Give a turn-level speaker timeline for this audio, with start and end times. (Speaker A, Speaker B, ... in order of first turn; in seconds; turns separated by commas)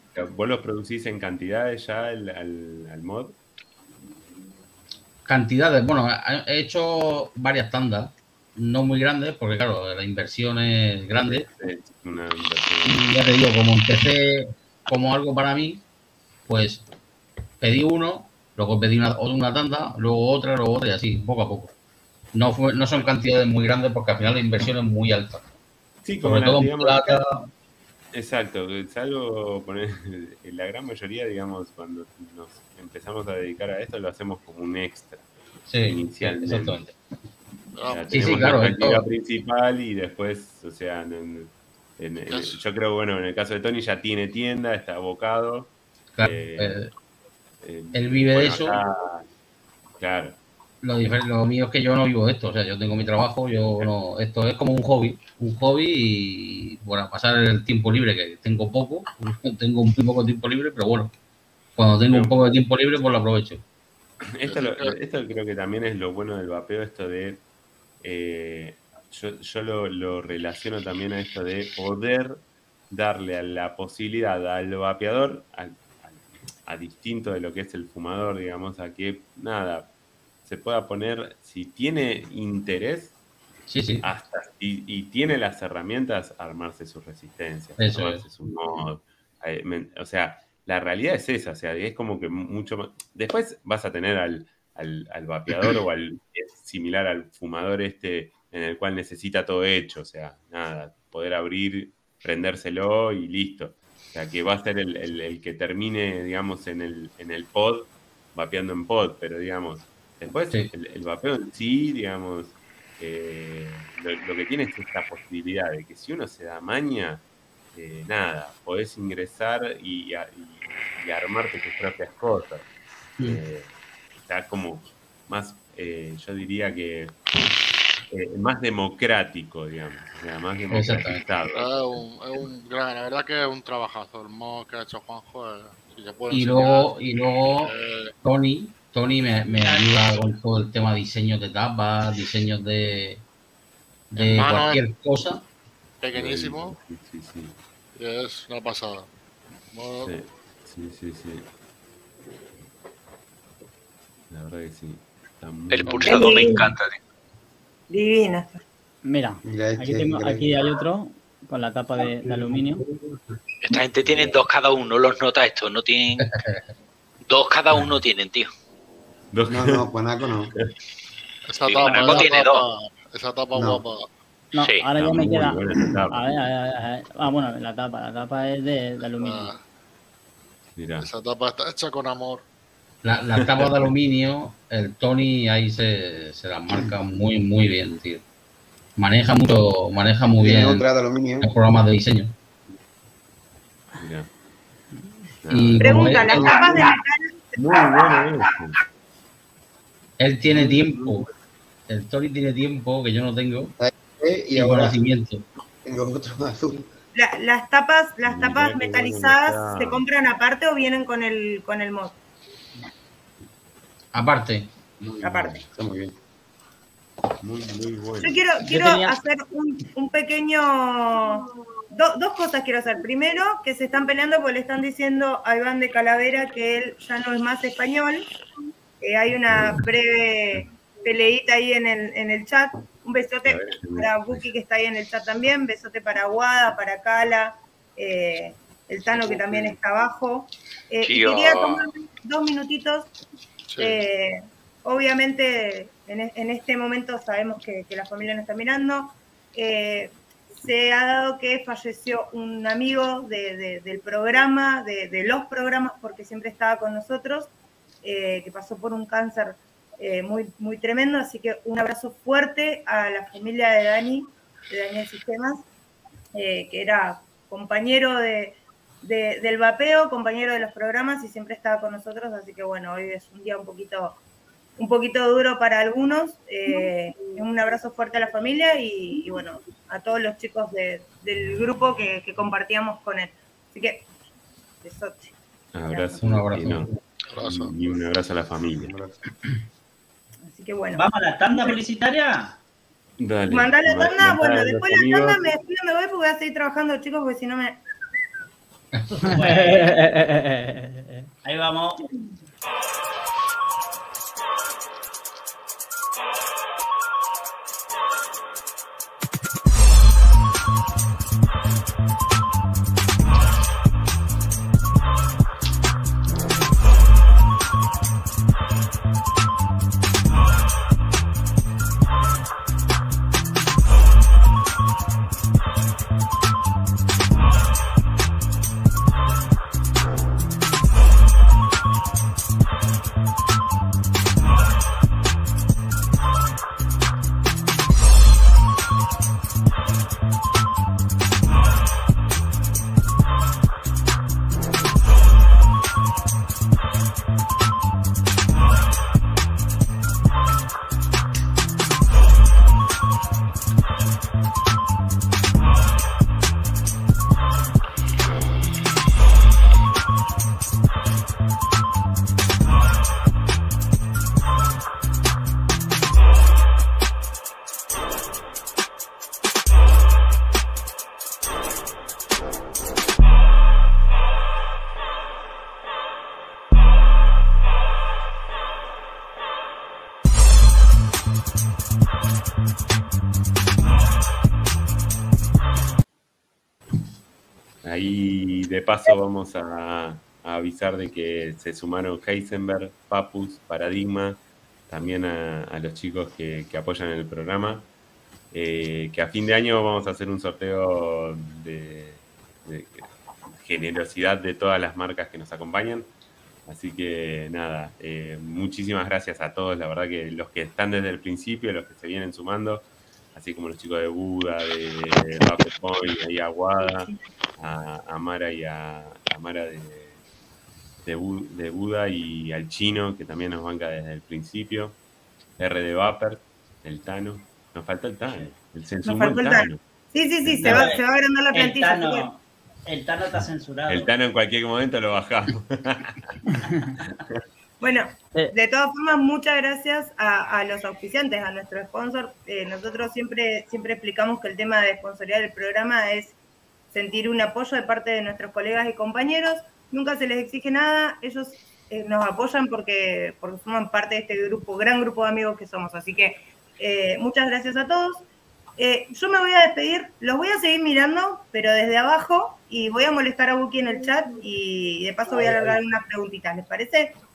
Speaker A: 0.1-3.4, Speaker B: 5.2-11.5, Speaker A: 11.2-13.1, Speaker B: 12.8-15.8, Speaker B: 16.5-16.9, Speaker B: 17.6-21.7, Speaker B: 22.3-25.5, Speaker A: 26.1-27.2, Speaker B: 26.2-27.5, Speaker A: 28.1-35.3, Speaker B: 35.7-37.0, Speaker A: 35.9-36.8, Speaker C: 37.7-38.8, Speaker A: 37.9-46.8, Speaker B: 38.1-39.1, Speaker C: 42.3-42.6, Speaker B: 46.1-46.9, Speaker A: 47.6-49.3, Speaker B: 47.9-48.8, Speaker A: 50.0-50.4, Speaker B: 50.8-61.1, Speaker B: 61.8-63.6, Speaker A: 62.1-62.5, Speaker A: 64.3-67.4, Speaker C: 64.4-65.0, Speaker A: 68.0-79.9, Speaker A: 80.5-83.2, Speaker B: 83.7-84.1, Speaker A: 84.0-122.7, Speaker B: 87.8-88.9, Speaker A: 123.2-123.7, Speaker A: 124.2-127.2, Speaker A: 128.1-131.7, Speaker B: 130.7-131.2, Speaker C: 131.5-138.1, Speaker B: 136.3-143.2, Speaker D: 139.6-140.3, Speaker B: 144.1-145.5, Speaker C: 144.2-144.8, Speaker A: 144.5-144.7, Speaker C: 146.0-146.8, Speaker A: 146.1-147.6, Speaker C: 148.0-149.1, Speaker C: 149.7-150.2, Speaker A: 150.0-151.5, Speaker A: 154.3-156.5, Speaker E: 155.7-157.0, Speaker F: 156.1-156.6, Speaker F: 157.9-158.6, Speaker G: 159.1-162.8, Speaker H: 159.4-160.7, Speaker H: 162.2-162.7, Speaker E: 163.7-166.2, Speaker A: 164.1-164.4, Speaker B: 166.2-166.7, Speaker E: 167.3-168.5, Speaker A: 169.3-169.9, Speaker H: 169.5-170.5, Speaker C: 171.5-174.1, Speaker E: 171.6-172.6, Speaker H: 173.6-173.8, Speaker G: 174.5-179.5, Speaker E: 174.6-174.9, Speaker A: 175.0-176.4, Speaker C: 179.2-179.6, Speaker A: 180.8-181.1, Speaker C: 181.0-182.4, Speaker B: 183.0-188.2, Speaker A: 183.4-183.9, Speaker B: 189.0-190.8, Speaker H: 190.4-191.5, Speaker B: 191.4-192.3, Speaker A: 194.0-194.3, Speaker A: 195.4-196.9, Speaker B: 195.5-196.8, Speaker F: 195.8-198.3, Speaker A: 197.6-198.8, Speaker B: 200.2-201.3, Speaker H: 200.5-201.0, Speaker B: 201.9-203.7, Speaker H: 203.8-204.9, Speaker B: 204.6-205.5, Speaker H: 205.8-206.9, Speaker F: 207.1-212.2, Speaker A: 208.2-210.1, Speaker B: 214.1-214.7, Speaker A: 215.0-216.1, Speaker F: 215.2-215.6, Speaker A: 217.4-218.4, Speaker F: 218.2-228.3, Speaker G: 218.7-219.2, Speaker F: 229.0-243.1, Speaker A: 229.5-229.8, Speaker A: 233.4-234.5, Speaker A: 239.1-239.7, Speaker E: 241.1-241.8, Speaker C: 243.7-244.0, Speaker F: 243.8-257.5, Speaker F: 258.0-265.6, Speaker F: 266.3-274.2, Speaker F: 274.8-284.1, Speaker F: 284.8-285.3, Speaker A: 285.7-286.9, Speaker B: 286.2-287.0, Speaker C: 287.3-287.8, Speaker A: 287.4-289.0, Speaker H: 288.8-289.1, Speaker F: 290.4-291.0, Speaker D: 290.9-292.6, Speaker A: 293.2-295.5, Speaker F: 293.5-297.8, Speaker D: 299.3-300.1, Speaker G: 299.3-301.2, Speaker D: 301.4-302.0, Speaker A: 387.8-397.9, Speaker A: 398.5-406.1, Speaker A: 406.7-420.2, Speaker A: 421.1-425.0, Speaker A: 425.6-429.8, Speaker F: 429.0-432.3, Speaker A: 430.4-430.9, Speaker D: 430.5-434.1, Speaker A: 433.9-436.3, Speaker F: 437.8-446.4, Speaker F: 446.9-458.3, Speaker F: 458.8-467.2